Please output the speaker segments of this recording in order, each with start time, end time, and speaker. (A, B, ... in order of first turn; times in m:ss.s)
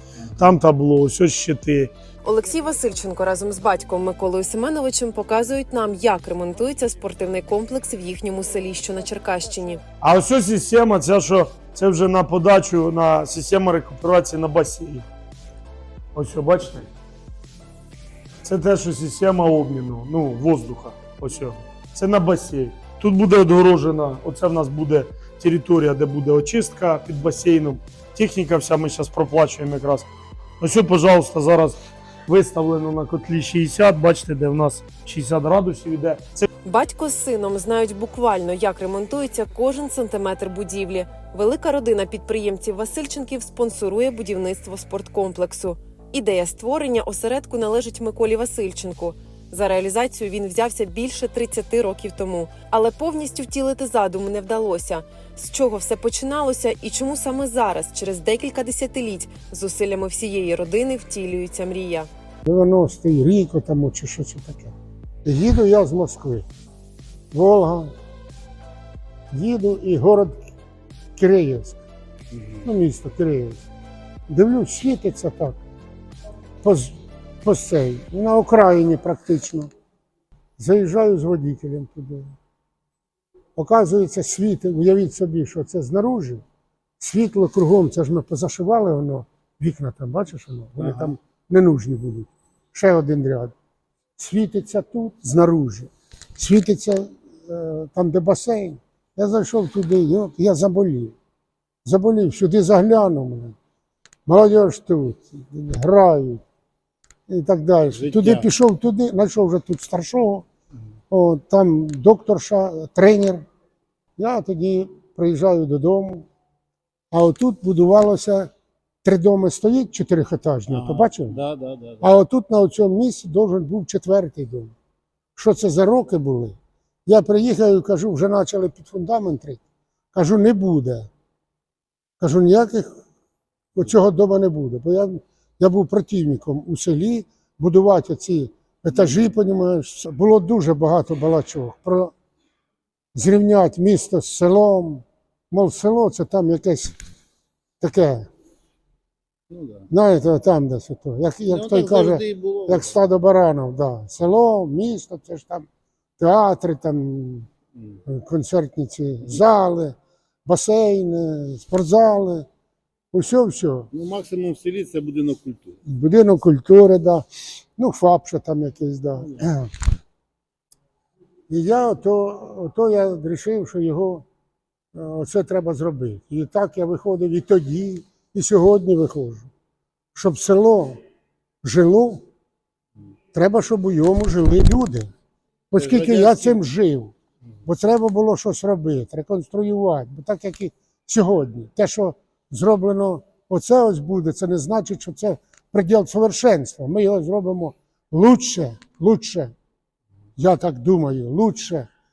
0:00.2-0:00.6 A
0:00.4-0:01.9 B
0:02.2-0:09.8 C
0:10.0-0:15.0 B
0:16.1-0:16.9 B
0:18.4-0:30.0 B
0:30.6-0:36.4 B
0:36.6-1:02.1 C
1:02.4-1:04.7 D
1:05.2-1:06.4 D
1:07.3-1:07.9 D
1:09.3-1:10.4 D
1:11.2-1:11.8 D
1:12.3-1:12.6 A
1:12.6-1:13.6 D
1:14.3-1:15.6 D
1:16.6-1:19.7 D
1:20.6-1:22.3 D
1:23.6-1:26.4 D
1:27.0-1:33.5 D
1:30.8-1:31.1 A
1:34.2-1:41.1 D
1:41.8-1:43.6 D
1:44.2-1:46.4 D
1:47.3-1:50.4 D
1:47.9-1:48.5 A
1:51.1-1:53.4 D
1:54.2-1:56.2 D
1:57.1-1:58.5 D
1:59.0-2:01.4 D
2:00.7-2:02.1 A
2:02.0-2:04.7 D
2:05.4-2:09.6 D
2:10.1-2:11.1 D
2:12.2-2:13.0 D
2:13.7-2:22.1 D
2:23.1-2:26.9 D
2:27.8-2:28.2 D
2:29.5-2:29.9 A
2:29.9-2:35.6 D
2:31.4-2:32.9 A
2:36.2-2:37.5 D
2:38.1-2:42.5 D
2:43.1-2:43.9 D
2:43.9-2:45.8 A
2:45.8-2:47.2 D
2:47.8-2:49.7 D
2:51.5-2:54.2 D
2:54.9-2:59.5 D
3:00.1-3:01.0 D
3:01.6-3:02.2 D
3:03.3-3:05.1 D
3:05.7-3:07.1 D
3:05.8-3:06.6 A
3:07.6-3:19.5 D
3:20.4-3:21.9 D